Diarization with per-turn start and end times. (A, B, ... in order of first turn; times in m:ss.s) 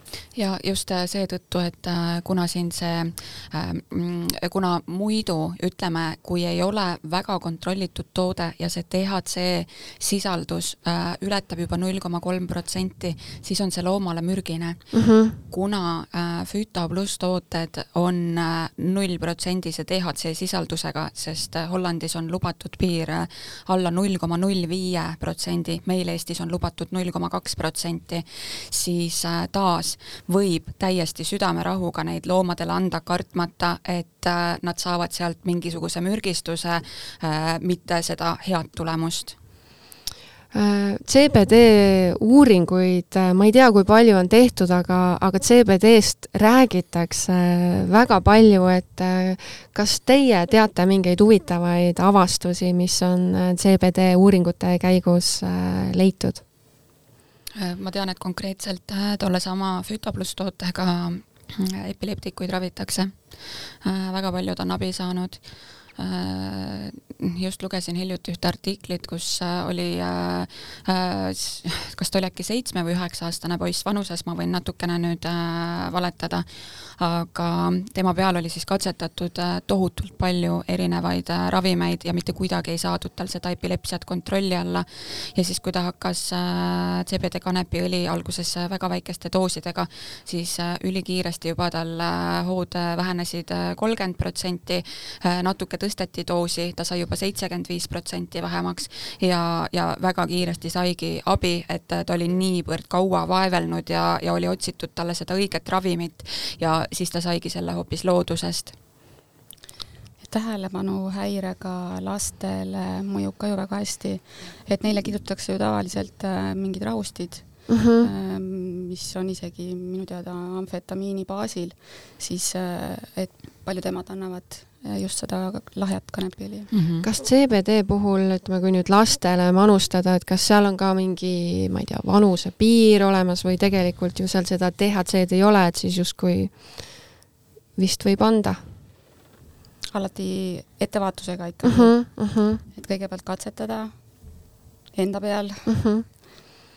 0:00.4-0:39.4 A
0:14.9-0:15.4 B
0:40.5-0:56.4 B
0:57.6-1:48.7 A
1:50.2-2:06.7 C
1:57.7-1:58.1 B
2:06.7-2:07.1 A
2:07.0-2:17.0 B
2:17.8-2:18.6 B
2:19.9-2:22.2 C
2:21.6-2:22.6 B
2:22.7-2:25.7 C
2:25.6-2:26.0 B